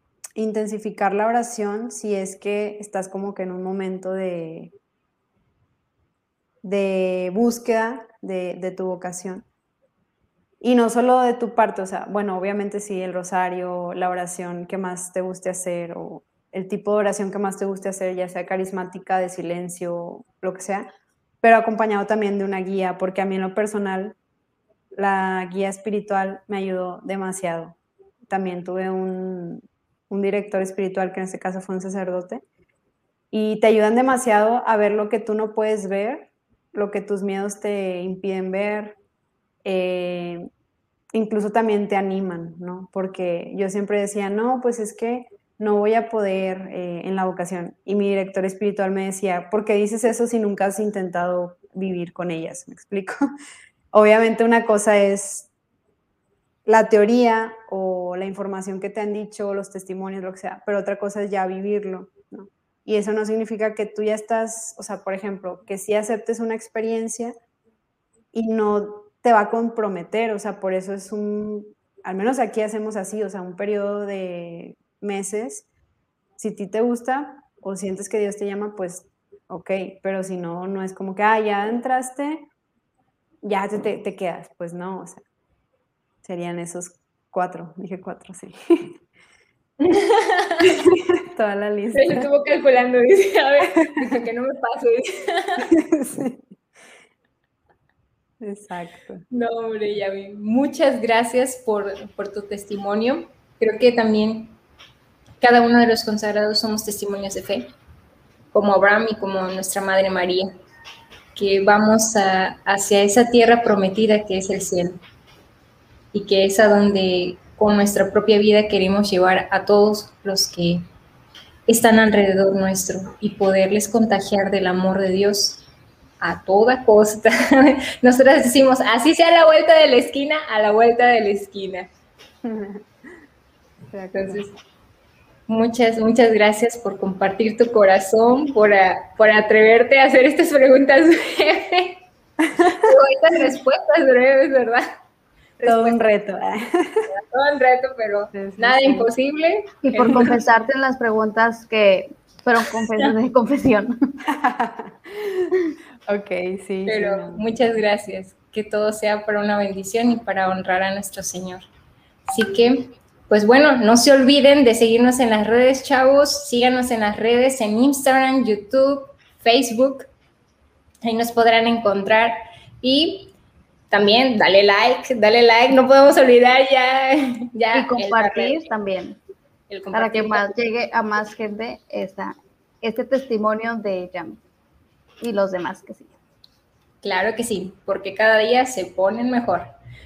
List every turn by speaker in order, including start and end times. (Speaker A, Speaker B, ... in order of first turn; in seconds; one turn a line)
Speaker A: 0.3-4.7
Speaker A: 6.6-9.4
Speaker A: 10.6-20.9
Speaker A: 21.4-24.1
Speaker A: 24.9-32.4
Speaker A: 33.3-39.0
Speaker A: 39.6-40.5
Speaker A: 41.1-53.1
Speaker A: 53.9-55.5
Speaker A: 56.6-67.3
Speaker A: 68.3-75.7
Speaker A: 76.4-82.5
Speaker A: 83.4-85.2
Speaker A: 86.2-88.9
Speaker B: 89.8-90.8
Speaker A: 90.7-92.3
Speaker B: 91.9-95.7
Speaker A: 94.0-94.2
Speaker A: 95.7-96.5
Speaker A: 98.4-99.2
Speaker B: 99.3-104.5
Speaker B: 105.4-107.7
Speaker B: 108.5-110.5
Speaker B: 111.3-115.0
Speaker B: 116.1-120.8
Speaker B: 121.7-125.7
Speaker B: 126.2-131.9
Speaker A: 132.4-132.9
Speaker A: 133.9-134.6
Speaker B: 134.1-134.5
Speaker B: 135.5-142.0
Speaker A: 142.4-142.9
Speaker B: 142.7-144.9
Speaker B: 145.6-146.1
Speaker A: 145.6-147.1
Speaker B: 147.1-150.4
Speaker A: 148.3-149.1
Speaker C: 149.8-153.9
Speaker A: 154.3-155.5
Speaker A: 156.1-157.5
Speaker B: 156.9-161.7
Speaker B: 162.3-170.1
Speaker B: 171.0-173.3
Speaker B: 173.9-178.6
Speaker C: 177.7-179.2
Speaker B: 179.7-180.5
Speaker C: 179.9-184.4
Speaker C: 185.2-186.1
Speaker B: 187.0-189.7